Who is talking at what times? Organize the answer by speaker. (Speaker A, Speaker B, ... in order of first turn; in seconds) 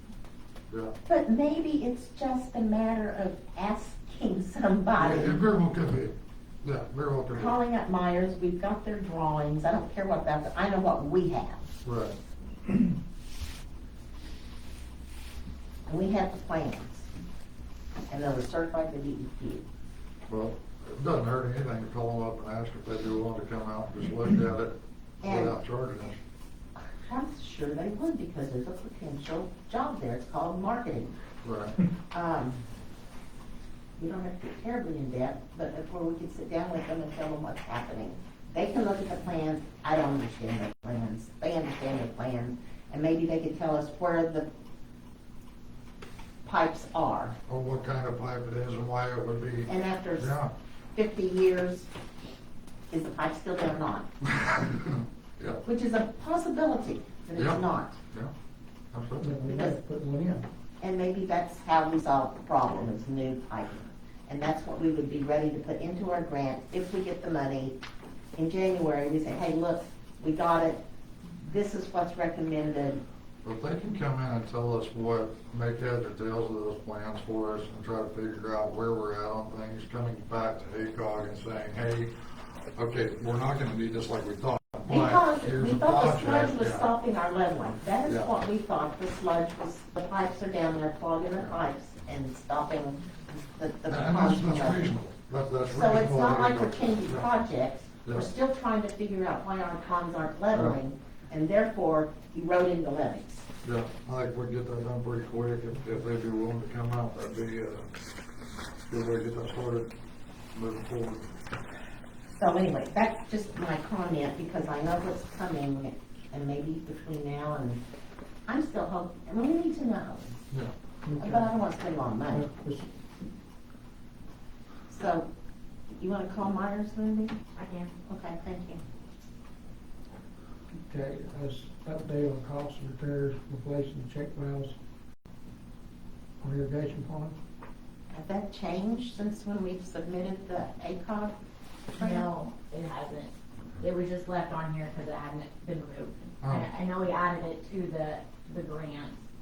Speaker A: 0.7-0.9, 5.0-7.5, 11.8-12.2, 20.3-26.2, 31.4-31.8, 47.5-50.5, 54.2-55.6, 57.4-58.3, 58.9-59.3, 73.4-86.9, 88.0-88.3, 93.9-97.2, 100.5-100.8, 103.6-107.9, 108.9-109.9, 110.5-111.3, 146.4-146.7
Speaker B: 1.1-5.3, 7.3-11.7, 15.9-17.1, 18.1-19.6, 25.2-25.6, 26.9-31.2, 32.1-32.6, 34.0-44.5, 46.4-47.4, 49.7-50.3, 50.9-51.9, 52.9-54.1, 55.6-58.0, 59.5-67.8, 68.3-70.8, 71.4-73.0, 84.9-94.9, 95.7-103.5, 112.4-117.8, 118.5-120.3, 121.2-122.5, 124.9-125.3, 125.9-127.3, 128.1-128.8, 138.1-141.3, 141.9-142.3
Speaker C: 59.2-60.4, 121.1-121.5, 122.3-122.9, 130.8-134.7, 136.4-137.3
Speaker D: 127.5-127.9, 142.0-149.2